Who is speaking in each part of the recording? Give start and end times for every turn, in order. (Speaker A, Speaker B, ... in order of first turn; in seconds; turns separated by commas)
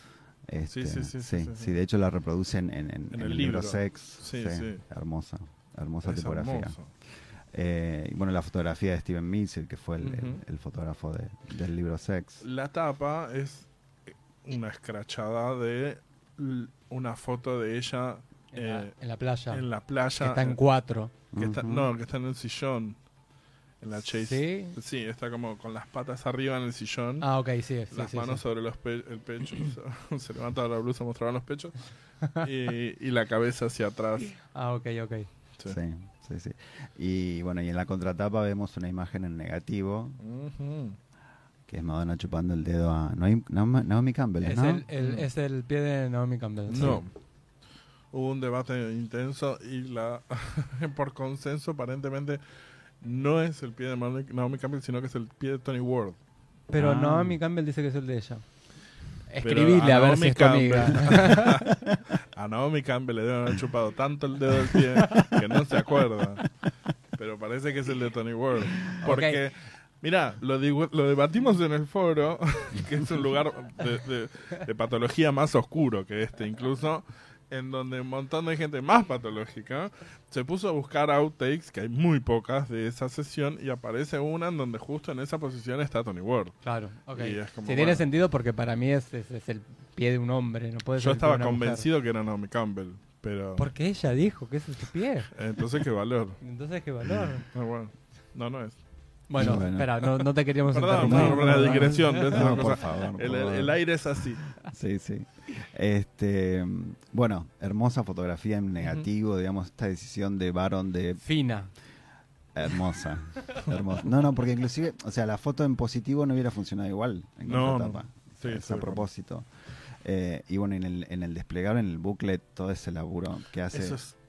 Speaker A: 0.5-6.8, Speaker B: 0.7-1.8, Speaker B: 3.1-4.8, Speaker B: 6.0-6.9, Speaker A: 7.5-12.4, Speaker B: 10.0-10.4, Speaker B: 12.4-13.7, Speaker B: 14.4-18.9, Speaker C: 18.5-19.6, Speaker B: 19.5-20.6, Speaker C: 20.2-21.1, Speaker A: 21.3-21.9, Speaker B: 21.4-23.0, Speaker B: 23.8-27.3, Speaker C: 24.2-24.8, Speaker C: 27.2-28.4, Speaker B: 27.9-34.3, Speaker C: 34.4-35.3, Speaker A: 35.6-40.2, Speaker B: 40.2-41.0, Speaker A: 41.7-44.8, Speaker C: 44.4-47.0, Speaker B: 45.0-45.3, Speaker B: 46.7-47.1, Speaker A: 46.7-47.0, Speaker B: 48.1-52.4, Speaker B: 53.0-56.2, Speaker C: 56.7-58.4, Speaker A: 56.7-57.4, Speaker C: 59.3-61.6, Speaker B: 59.4-61.8, Speaker B: 62.3-66.5, Speaker B: 67.2-86.6, Speaker C: 69.0-69.4, Speaker C: 86.6-91.8, Speaker B: 87.1-88.0, Speaker B: 91.0-93.7, Speaker C: 93.6-95.3, Speaker B: 95.3-96.4, Speaker C: 96.4-97.4, Speaker A: 97.0-97.4, Speaker B: 97.5-98.8, Speaker C: 99.3-102.5, Speaker A: 99.3-100.0, Speaker B: 100.7-104.4, Speaker A: 100.9-103.8, Speaker A: 104.6-111.2, Speaker C: 111.2-111.7, Speaker A: 112.5-124.0, Speaker B: 117.4-119.0, Speaker B: 123.7-124.1